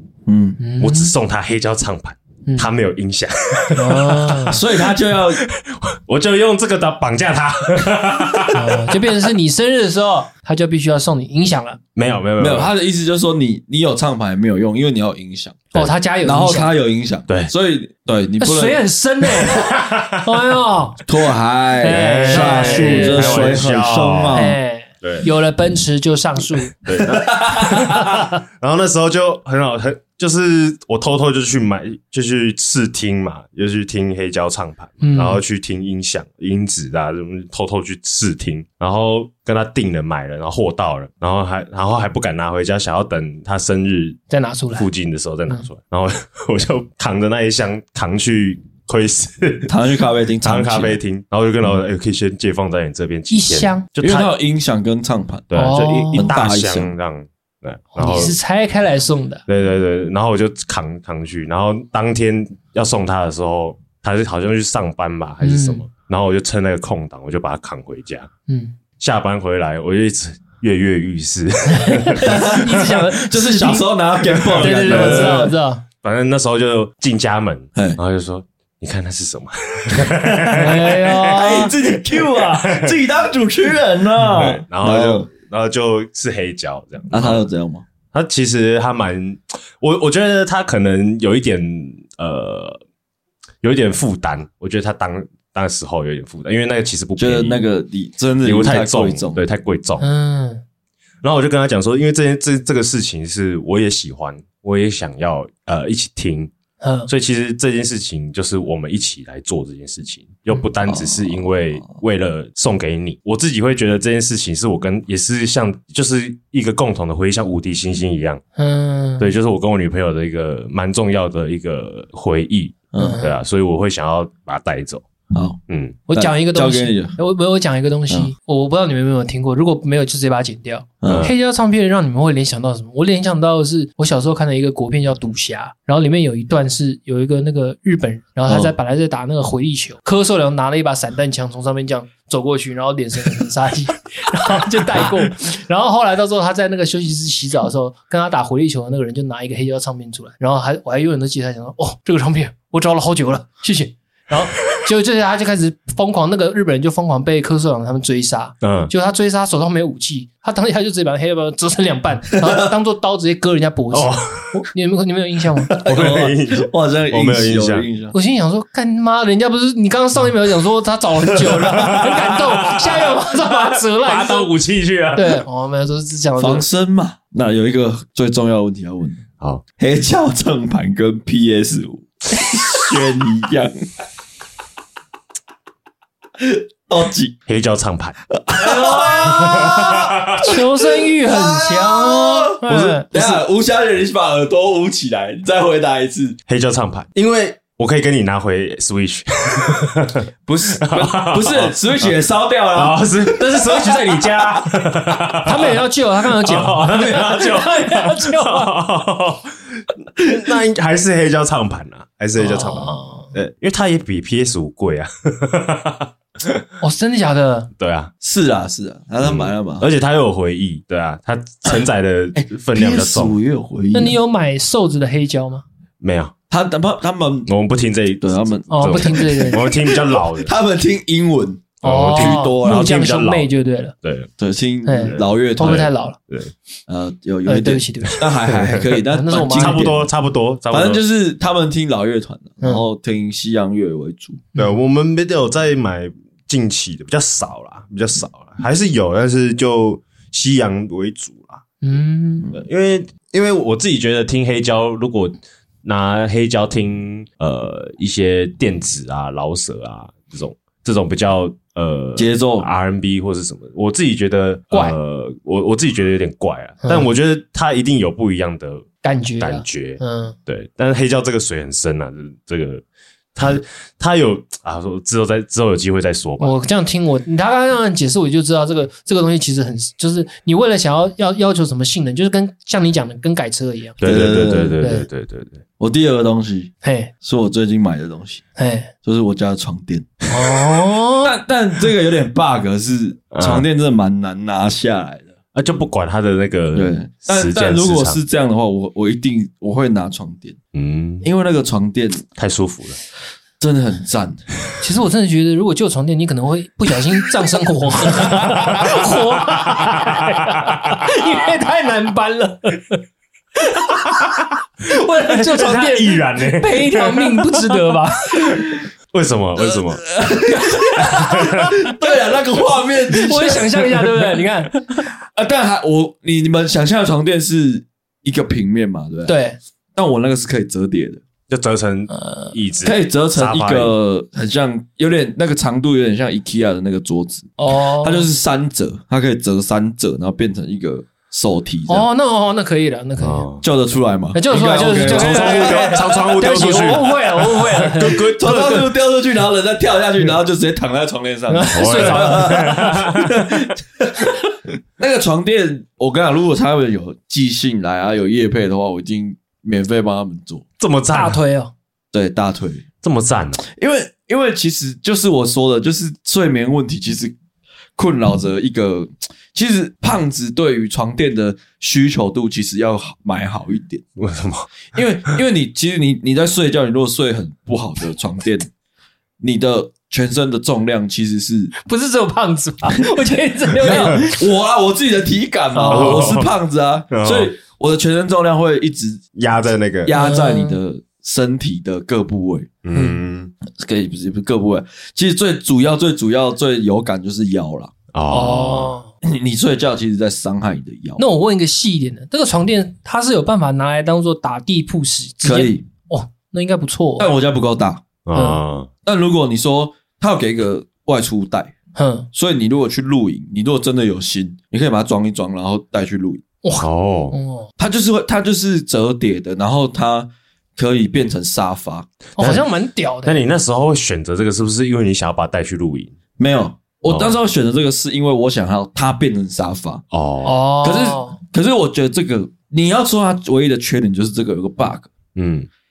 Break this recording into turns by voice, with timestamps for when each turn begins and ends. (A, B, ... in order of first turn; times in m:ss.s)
0:00.3-0:00.6 A
0:00.6-0:01.1 B
0:00.8-0:09.2 C
0:03.7-0:04.6 B
0:04.5-0:05.4 A
0:08.5-0:11.8 B
0:12.0-0:12.7 C
0:12.4-0:18.8 A
0:15.7-0:16.7 B
0:18.4-0:21.0 B
0:19.4-0:20.3 C
0:21.1-0:24.6 A
0:21.8-0:23.6 B
0:21.9-0:24.5 C
0:24.3-0:26.7 B
0:25.0-0:25.3 C
0:26.8-0:44.2 C
0:27.0-0:27.9 A
0:27.5-0:28.4 B
0:35.0-0:35.4 B
0:44.3-0:44.9 B
0:44.8-0:49.7 C
0:49.7-0:51.0 A
0:50.4-0:54.3 C
0:53.3-0:53.9 B
0:54.0-0:55.5 A
0:55.5-0:58.4 C
0:55.6-0:56.3 B
0:56.1-0:56.9 A
0:58.0-0:59.4 B
0:59.5-1:08.3 C
1:05.4-1:05.8 B
1:08.5-1:08.8 B
1:09.0-1:13.0 C
1:11.7-1:13.9 B
1:12.2-1:15.5 A
1:14.4-1:15.5 C
1:14.6-1:15.8 B
1:16.0-1:23.0 C
1:20.5-1:21.7 B
1:21.3-1:25.3 A
1:24.3-1:27.4 C
1:27.1-1:27.8 A
1:28.1-1:32.8 C
1:33.6-1:37.6 C
1:37.2-1:39.4 A
1:38.4-1:40.0 C
1:40.0-1:40.6 B
1:41.2-1:46.5 C
1:46.8-1:47.1 B
1:47.1-1:58.4 C
1:50.8-1:51.5 A
1:58.6-1:59.3 B
1:59.2-2:05.0 C
2:02.9-2:03.2 A
2:03.0-2:03.4 B
2:05.3-2:05.6 A
2:05.7-2:06.0 C
2:06.1-2:45.7 B
2:06.1-2:07.2 A
2:11.0-2:11.3 A
2:11.1-2:11.3 C
2:18.5-2:18.8 A
2:38.6-2:38.9 C
2:43.9-2:44.5 C
2:45.7-2:47.9 C
2:45.8-2:48.1 A
2:48.1-2:54.5 B
2:51.4-2:55.4 C
2:55.1-2:56.7 B
2:56.4-2:59.2 A
2:59.8-3:03.8 A
3:06.4-3:07.4 A
3:07.5-3:10.5 C
3:08.3-3:16.4 A
3:10.4-3:13.4 B
3:16.5-3:22.1 C
3:20.5-3:24.7 A
3:22.8-3:25.8 C
3:25.4-3:28.7 B
3:26.4-3:36.6 C
3:32.4-3:33.3 B
3:36.8-3:37.7 B
3:37.8-3:38.1 C
3:38.2-3:39.9 A
3:39.2-3:43.4 C
3:42.4-3:44.2 A
3:43.9-3:45.6 B
3:46.0-3:46.3 C
3:46.5-3:47.5 A
3:47.5-3:50.5 C
3:48.2-3:52.9 A
3:48.7-3:49.6 B
3:51.8-3:53.5 C
3:51.8-3:53.9 B
3:54.0-3:54.3 C
3:54.4-3:55.9 A
3:54.8-3:56.2 B
3:55.0-3:56.5 C
3:56.9-4:00.1 A
3:57.5-3:58.3 B
3:58.5-4:01.0 C
3:59.1-3:59.8 B
4:00.7-4:04.5 A
4:04.6-4:11.6 C
4:11.8-4:12.5 B
4:12.6-4:28.9 C
4:22.2-4:22.7 A
4:26.8-4:27.1 B
4:29.0-4:30.4 B
4:29.4-4:32.8 C
4:33.4-4:36.6 C
4:36.4-4:44.0 B
4:44.0-4:45.6 C
4:44.0-4:44.8 A
4:44.8-4:45.1 B
4:45.8-4:48.4 A
4:46.8-4:47.1 B
4:48.6-4:48.9 B
4:49.0-4:50.2 A
4:50.3-4:51.4 B
4:51.2-4:55.3 A
4:53.3-4:53.6 C
4:55.5-4:58.2 C
4:56.7-5:00.6 A
5:00.7-5:01.3 C
5:01.2-5:02.2 A
5:02.4-5:03.0 C
5:03.6-5:04.4 A
5:04.8-5:13.0 B
5:08.4-5:11.0 C
5:13.6-5:14.0 B
5:14.0-5:14.5 C
5:14.8-5:18.6 B
5:15.2-5:20.2 C
5:19.7-5:24.1 A
5:20.5-5:21.9 B
5:21.1-5:21.8 C
5:23.1-5:25.0 B
5:25.2-5:29.4 A
5:29.3-5:29.6 B
5:30.0-5:31.2 A
5:31.5-5:33.9 C
5:32.1-5:32.6 B
5:32.8-5:42.1 A
5:37.6-5:38.3 B
5:41.9-5:43.5 B
5:43.2-5:43.6 C
5:43.6-5:46.7 A
5:44.3-5:48.2 B
5:44.8-5:48.9 C
5:48.0-5:54.4 A
5:51.5-5:53.2 B
5:51.7-5:53.5 C
5:55.0-6:00.6 A
6:00.8-6:01.4 C
6:01.1-6:01.7 B
6:02.1-6:02.9 A
6:03.0-6:03.6 C
6:03.6-6:07.3 A
6:08.0-6:14.0 A
6:14.2-6:15.4 C
6:14.9-6:18.7 A
6:19.4-6:21.7 A
6:21.8-6:24.4 B
6:23.8-6:29.2 A
6:25.7-6:26.3 B
6:25.8-6:26.5 C
6:27.1-6:27.5 C
6:29.4-6:30.2 C
6:30.0-6:32.8 A
6:30.2-6:30.8 B
6:32.8-6:33.5 C
6:32.9-6:33.2 B
6:33.7-6:37.9 A
6:38.1-6:39.0 C
6:38.3-6:39.1 B
6:39.2-6:41.2 A
6:41.2-6:47.3 B
6:45.4-6:45.9 A
6:47.2-6:48.0 A
6:48.2-6:48.9 C
6:48.3-6:48.6 B
6:49.0-6:51.7 A
6:52.0-6:52.3 B
6:52.3-6:56.4 A
6:56.6-6:57.7 B
6:56.8-6:57.4 C
6:57.8-7:02.1 A
7:02.4-7:03.4 B
7:02.4-7:02.7 C
7:03.2-7:06.2 C
7:06.4-7:10.0 A
7:07.1-7:07.4 C
7:10.1-7:10.6 C
7:10.4-7:11.4 B
7:10.8-7:15.1 A
7:15.4-7:15.7 C